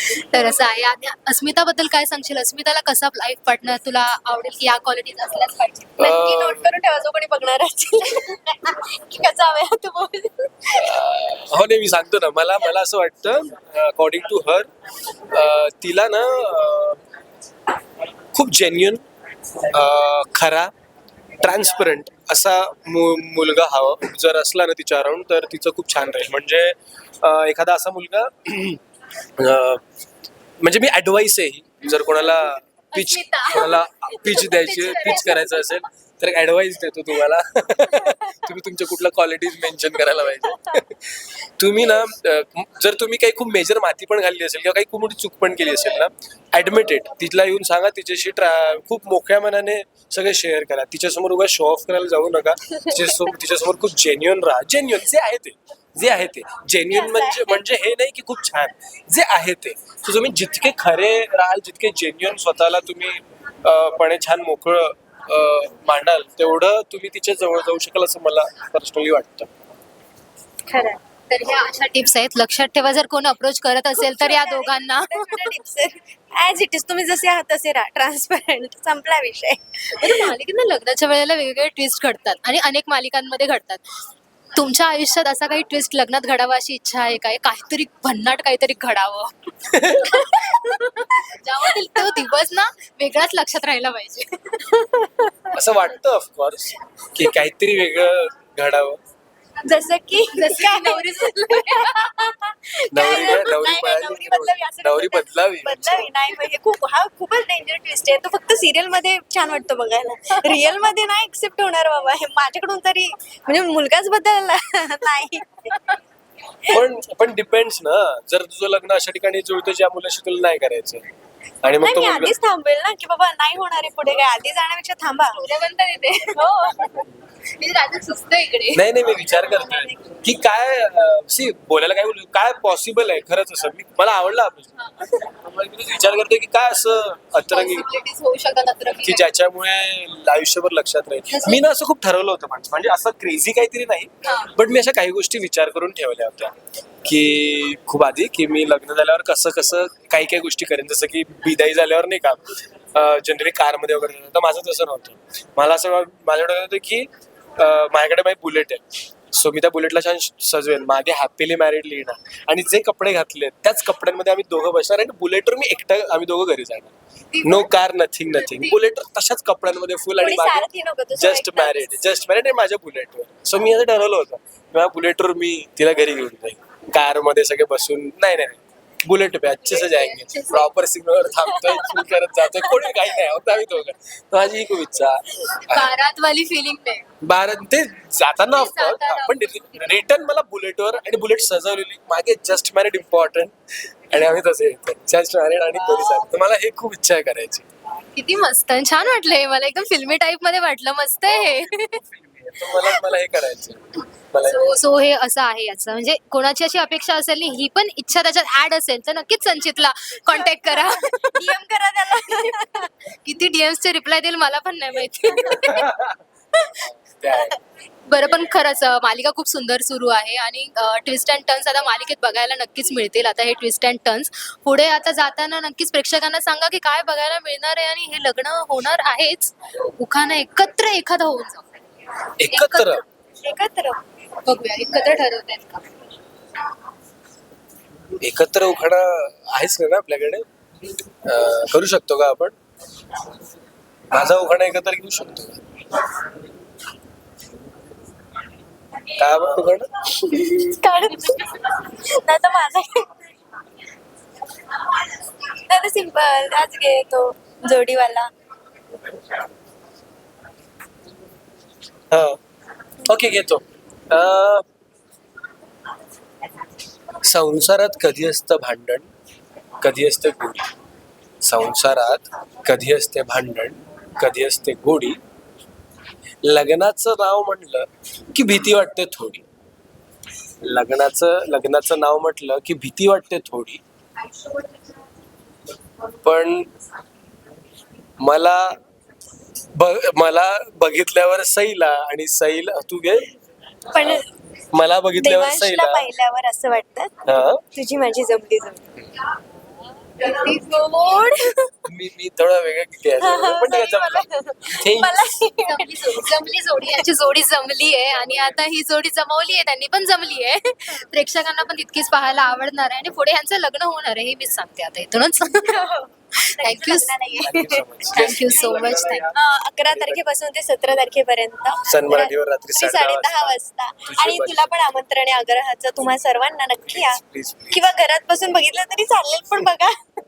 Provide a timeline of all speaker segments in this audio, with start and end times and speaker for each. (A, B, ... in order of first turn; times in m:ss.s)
0:00.3-0:05.9 A
0:06.0-0:06.7 B
0:06.0-0:10.9 C
0:10.7-0:14.7 B
0:15.3-0:17.0 B
0:18.3-0:19.0 B
0:19.7-0:20.7 B
0:21.4-0:28.8 B
0:29.4-0:29.8 B
0:30.6-1:09.5 B
0:32.9-0:35.8 A
0:56.9-0:57.6 C
1:10.7-1:11.0 C
1:11.3-1:15.5 A
1:13.9-1:20.3 C
1:20.0-1:24.0 A
1:24.5-1:29.5 A
1:29.7-1:30.2 B
1:30.1-1:30.8 C
1:30.4-1:34.7 A
1:31.6-1:32.0 C
1:34.7-1:35.5 C
1:35.5-1:39.0 B
1:39.6-1:55.9 C
1:40.3-1:42.1 A
1:42.9-1:46.1 B
1:43.1-1:43.6 A
1:56.7-2:01.0 B
2:01.6-2:02.4 B
2:01.8-2:05.4 C
2:05.3-2:08.8 A
2:08.7-2:17.9 B
2:09.5-2:09.8 C
2:14.8-2:15.1 A
2:17.5-2:19.3 A
2:19.0-2:26.5 B
2:21.3-2:21.6 A
2:24.2-2:24.5 A
2:27.0-3:05.9 B
2:47.3-2:47.7 A
2:48.3-2:48.8 A
2:50.2-2:52.1 C
2:59.5-3:00.7 A
3:05.7-3:07.0 A
3:07.2-3:17.6 B
3:08.5-3:10.0 A
3:15.9-3:16.2 A
3:18.1-3:22.0 A
3:22.0-3:24.8 B
3:24.4-3:31.6 A
3:30.3-3:32.9 C
3:32.2-3:35.9 A
3:35.6-3:36.2 B
3:36.8-3:37.6 B
3:38.1-3:51.7 A
3:52.4-3:53.0 B
3:52.5-3:53.0 A
3:53.4-3:54.0 C
3:54.4-3:55.8 A
3:58.2-4:00.4 B
4:01.2-4:02.5 B
4:04.1-4:05.6 B
4:09.1-4:09.9 B
4:10.3-4:13.1 C
4:15.5-4:18.3 C
4:22.1-4:22.4 B
4:23.0-4:24.6 B
4:27.2-4:29.1 B
4:29.8-4:30.7 B
4:31.4-4:35.2 B
4:36.4-4:39.4 B
4:40.6-4:43.8 B
4:46.2-4:46.7 B
4:48.2-4:48.8 B
4:49.7-4:53.3 B
4:53.9-4:54.3 C
4:54.0-4:56.1 B
4:55.2-4:57.1 C
4:57.2-4:57.6 B
4:57.7-4:58.8 C
5:00.2-5:01.2 A
5:00.2-5:01.8 C
5:01.8-5:05.2 B
5:03.2-5:06.3 C
5:05.6-5:17.2 A
5:15.6-5:29.9 C
5:17.4-5:20.3 B
5:18.1-5:19.3 A
5:21.8-5:24.9 B
5:26.9-5:27.9 B